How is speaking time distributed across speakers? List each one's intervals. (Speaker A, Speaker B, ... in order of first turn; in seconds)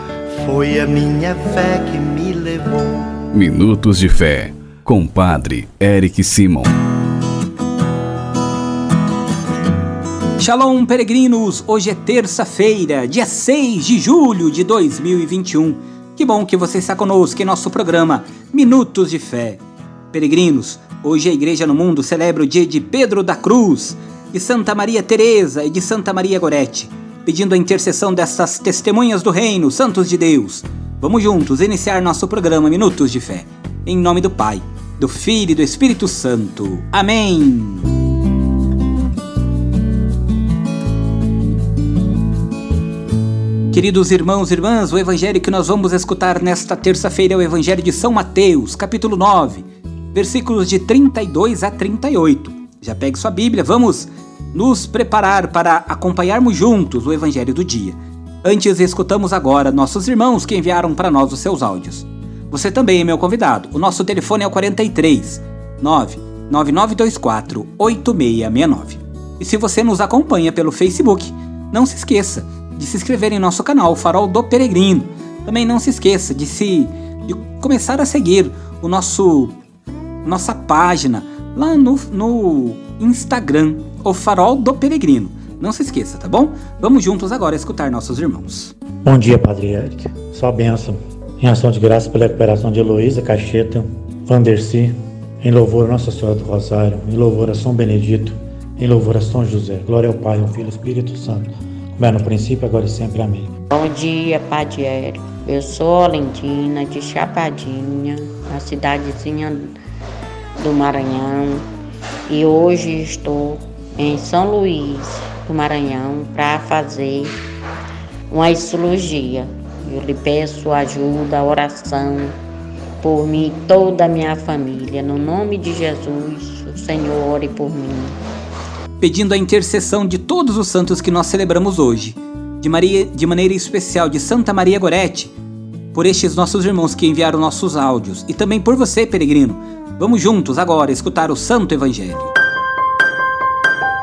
Speaker A: 0.3-3.2
Speaker B: 3.3-6.7
Speaker C: 10.4-37.9, 43.7-79.6, 80.2-88.8, 129.0-135.3, 135.9-142.3
Speaker D: 89.0-103.5
Speaker E: 103.7-109.8, 110.6-111.7, 112.3-117.3, 118.3-122.4, 123.0-128.2